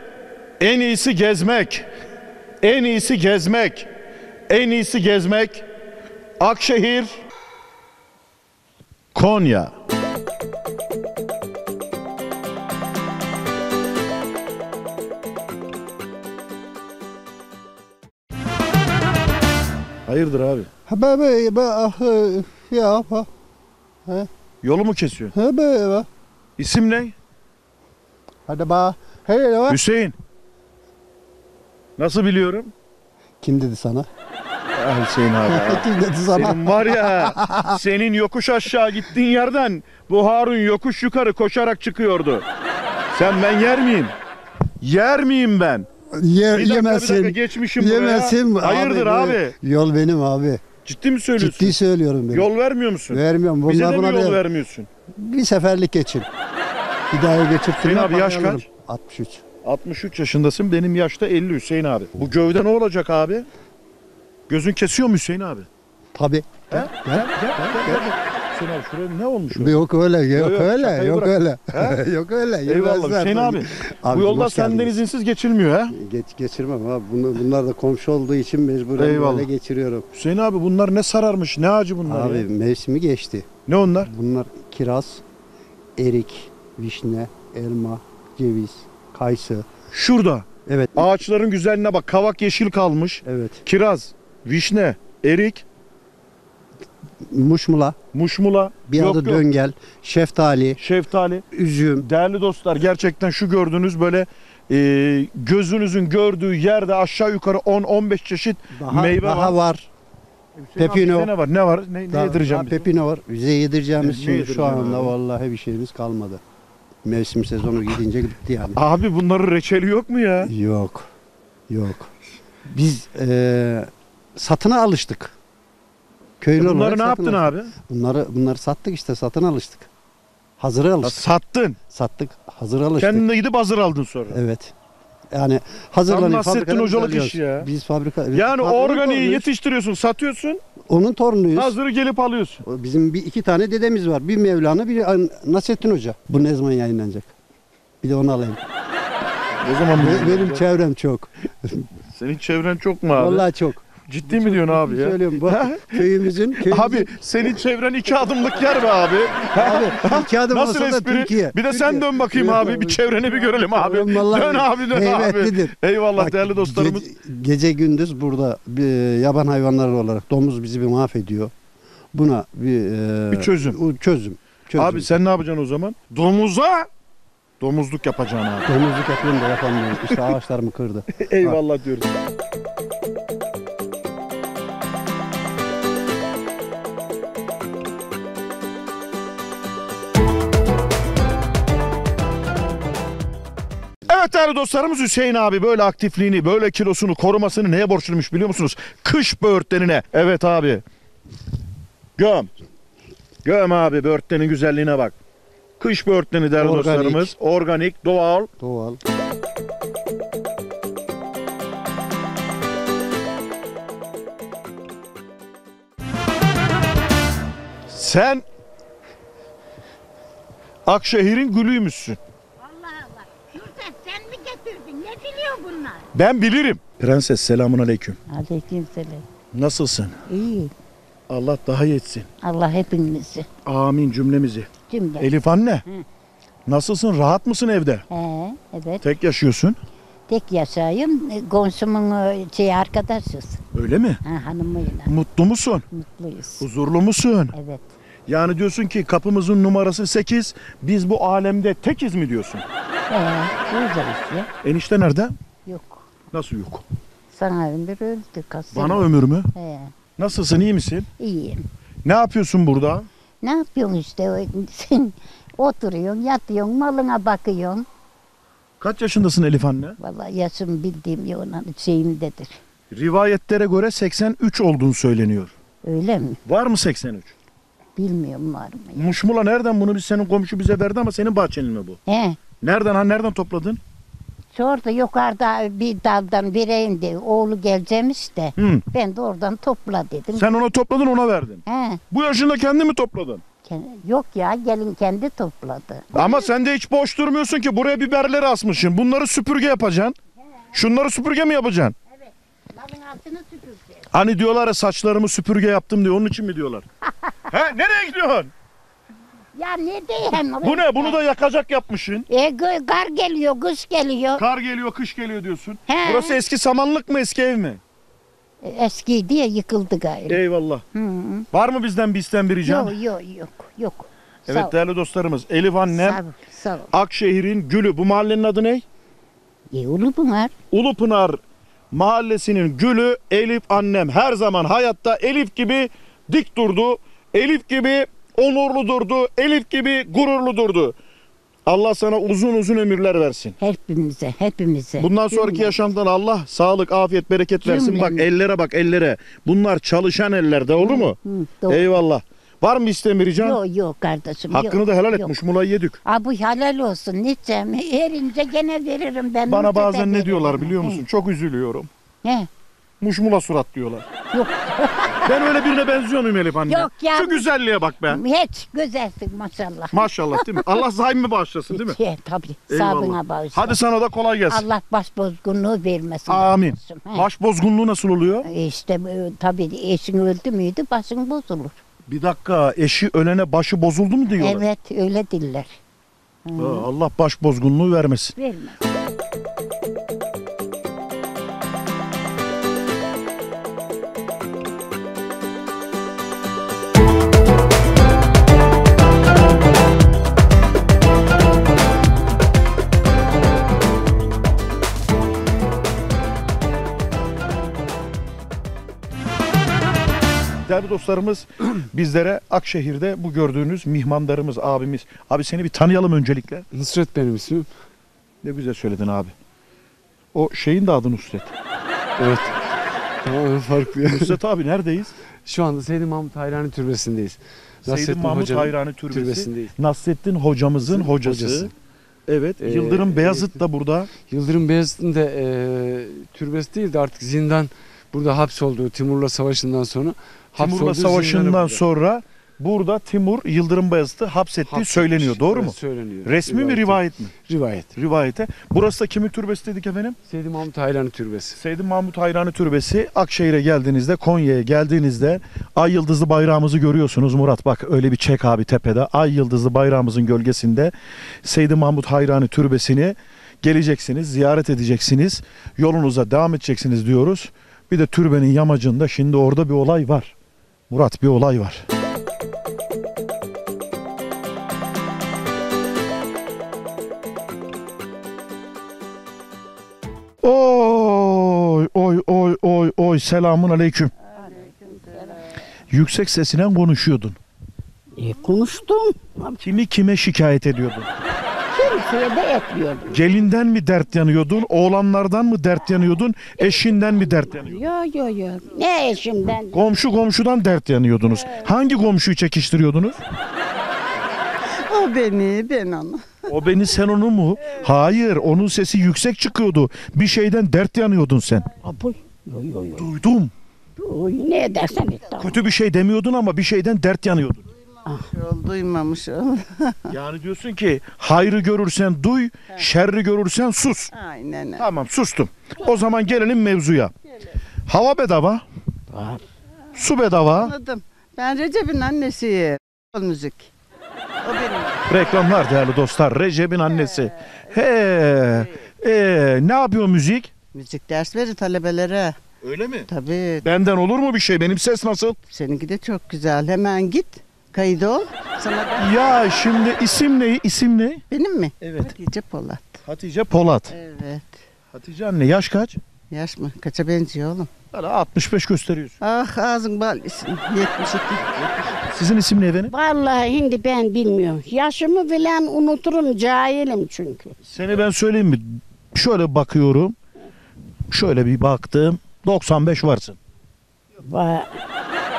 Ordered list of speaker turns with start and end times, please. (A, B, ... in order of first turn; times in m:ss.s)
0:00.6-0:01.8 A
0:02.6-0:03.9 A
0:04.5-0:05.6 A
0:06.4-0:07.2 A
0:09.1-0:09.7 A
0:20.0-0:20.7 A
0:20.9-0:23.3 B
0:24.6-0:25.3 A
0:25.3-0:26.1 B
0:26.6-0:27.1 A
0:28.5-0:29.8 B
0:29.7-0:30.1 A
0:32.0-0:32.7 A
0:33.4-0:34.1 B
0:34.7-0:35.8 A
0:35.5-0:37.8 B
0:36.3-0:42.4 A
0:43.1-0:44.1 A
0:44.8-0:45.9 A
0:46.2-0:50.6 B
0:46.5-0:49.5 A
0:50.8-0:51.8 A
0:51.4-0:52.5 B
0:52.3-0:54.9 A
0:53.1-0:54.4 B
0:55.1-0:56.3 B
0:57.1-0:59.4 B
0:57.8-0:58.6 A
0:59.6-1:03.5 A
1:04.5-1:05.7 A
1:06.1-1:08.0 B
1:06.7-1:09.8 A
1:09.6-1:15.0 B
1:10.3-1:12.0 A
1:12.6-1:15.9 A
1:15.9-1:20.0 B
1:19.0-1:19.5 A
1:20.1-1:22.5 A
1:22.0-1:23.5 B
1:23.7-1:24.1 A
1:24.1-1:25.2 B
1:26.0-1:29.7 B
1:29.9-1:35.6 A
1:30.6-1:31.0 B
1:33.2-1:33.6 B
1:37.2-1:38.0 B
1:38.1-1:39.4 A
1:38.9-1:40.8 B
1:40.8-1:41.4 A
1:41.5-1:42.0 B
1:42.0-1:49.6 A
1:48.7-1:49.9 B
1:50.6-1:52.9 A
1:50.8-1:51.3 B
1:52.1-1:56.4 B
1:54.0-1:55.1 A
1:57.0-1:58.8 B
1:58.7-2:00.5 A
2:00.5-2:01.1 B
2:01.7-2:02.1 B
2:02.7-2:05.3 B
2:06.4-2:09.9 B
2:06.6-2:07.7 A
2:10.6-2:11.2 B
2:11.0-2:11.8 A
2:11.9-2:13.2 B
2:13.0-2:14.4 A
2:14.3-2:14.7 B
2:15.3-2:19.4 B
2:16.1-2:17.7 A
2:18.3-2:20.6 A
2:20.9-2:21.7 B
2:21.5-2:22.6 A
2:22.6-2:27.3 B
2:28.0-2:28.6 B
2:29.6-2:30.6 A
2:30.0-2:31.8 B
2:32.1-2:33.4 A
2:33.2-2:37.1 B
2:34.1-2:47.1 A
2:39.5-2:51.5 B
2:52.1-2:55.1 B
2:53.3-2:53.8 A
2:54.8-2:56.9 A
2:57.6-2:58.7 A
2:58.6-3:01.6 B
3:01.2-3:02.1 A
3:14.1-3:20.8 A
3:22.2-3:22.5 A
3:23.4-3:25.1 A
3:25.8-3:28.5 A
3:26.6-3:27.3 B
3:28.6-3:29.0 B
3:37.9-3:38.4 A
3:40.8-3:42.2 A
3:42.6-3:46.0 C
3:46.1-3:48.2 A
3:48.3-3:49.2 C
3:49.5-3:50.2 A
3:50.3-3:50.7 C
3:51.3-3:52.3 A
3:52.4-3:53.5 C
3:53.6-3:55.8 A
3:54.9-3:55.3 C
3:56.7-3:58.0 A
3:58.1-3:59.0 C
3:59.0-3:59.8 A
4:00.3-4:03.6 C
4:03.7-4:04.2 A
4:04.2-4:05.1 C
4:05.0-4:05.8 A
4:05.9-4:06.6 C
4:06.6-4:07.5 A
4:07.5-4:07.9 C
4:08.3-4:12.6 A
4:13.1-4:14.5 C
4:14.6-4:15.3 A
4:15.6-4:16.1 C
4:16.3-4:16.8 A
4:17.3-4:19.9 C
4:18.7-4:19.5 A
4:20.2-4:21.1 A
4:21.2-4:21.6 C
4:22.0-4:23.1 A
4:23.4-4:27.8 C
4:28.8-4:30.0 A
4:30.0-4:32.6 C
4:32.9-4:35.5 A
4:35.8-4:36.4 C
4:36.4-4:37.3 A
4:38.0-4:39.1 C
4:39.0-4:42.0 A
4:42.1-4:42.4 C
4:42.6-4:43.8 A
4:44.5-4:50.5 C
4:48.6-4:48.8 A
4:50.3-4:53.4 A
4:51.7-4:52.0 C
4:53.6-4:56.5 C
4:56.1-5:00.2 A
5:00.7-5:01.9 A
5:02.2-5:04.0 C
5:04.1-5:06.8 A
5:07.5-5:08.5 A
5:09.6-5:11.2 C
5:10.6-5:12.2 A
5:12.3-5:14.4 C
5:14.4-5:17.8 A
5:15.9-5:16.4 C
5:18.6-5:20.4 C
5:20.3-5:20.8 A
5:20.9-5:21.4 C
5:21.5-5:22.9 A
5:22.6-5:24.7 C
5:24.5-5:26.2 A
5:25.9-5:26.9 C
5:26.9-5:28.8 A
5:29.7-5:30.5 C
5:30.7-5:31.4 A
5:31.9-5:41.0 A
5:41.6-5:43.6 A
5:43.6-5:45.8 C
5:45.0-5:53.6 A
5:47.6-5:48.3 C
5:50.8-5:51.9 C
5:53.4-5:55.3 C
5:54.5-5:56.0 A
5:56.0-6:01.0 C
5:59.5-6:01.9 A
6:03.0-6:04.1 A
6:04.3-6:05.4 C
6:05.2-6:08.2 A
6:06.7-6:07.4 C
6:08.0-6:10.8 C
6:09.9-6:12.0 A
6:11.7-6:13.8 C
6:12.7-6:14.6 A
6:14.5-6:17.3 C
6:16.3-6:18.4 A
6:18.4-6:21.8 C
6:22.1-6:24.6 A
6:24.4-6:25.8 C
6:26.4-6:26.9 C
6:26.6-6:28.3 A
6:28.4-6:28.8 C
6:50.6-6:56.6 A
6:56.7-6:57.7 D
6:58.4-6:59.3 A
7:00.3-7:01.5 A
7:02.2-7:02.6 D
7:03.2-7:04.4 D
7:04.1-7:05.2 A
7:05.4-7:09.7 D
7:07.9-7:11.7 A
7:10.8-7:11.7 D
7:12.3-7:14.1 A
7:12.6-7:13.5 D
7:14.3-7:21.8 D
7:20.6-7:27.3 A
7:24.7-7:27.9 D
7:27.9-7:30.2 A
7:30.3-7:31.6 D
7:31.6-7:40.9 A
7:41.4-7:50.3 A
7:50.9-7:51.8 A
8:00.4-8:04.1 A
8:04.4-8:05.2 E
8:05.9-8:07.4 A
8:08.2-8:09.6 E
8:09.6-8:11.1 A
8:11.7-8:13.2 E
8:13.1-8:17.8 A
8:17.5-8:19.7 E
8:19.7-8:23.2 A
8:24.8-8:26.4 F
8:26.5-8:31.8 A
8:31.8-8:33.1 E
8:33.0-8:33.5 A
8:34.0-8:35.5 E
8:35.4-8:37.6 A
8:38.3-8:40.1 F
8:40.1-8:44.1 A
8:44.1-8:44.8 F
8:44.8-8:47.1 A
8:47.9-8:48.6 A
8:49.1-8:49.4 E
8:50.0-8:50.7 A
8:50.5-8:53.7 F
8:54.4-8:55.0 F
8:55.1-9:00.5 A
9:00.7-9:02.4 F
9:02.6-9:03.0 A
9:03.1-9:03.6 F
9:03.6-9:05.4 A
9:05.5-9:09.6 F
9:09.0-9:11.2 A
9:11.3-9:13.0 F
9:11.8-9:12.1 A
9:13.0-9:13.9 A
9:13.9-9:14.6 F
9:14.9-9:16.0 A
9:16.3-9:17.7 F
9:17.9-9:19.2 A
9:19.2-9:21.5 F
9:21.6-9:22.9 A
9:22.9-9:27.5 E
9:27.6-9:30.1 A
9:31.1-9:33.4 A
9:34.2-9:34.8 E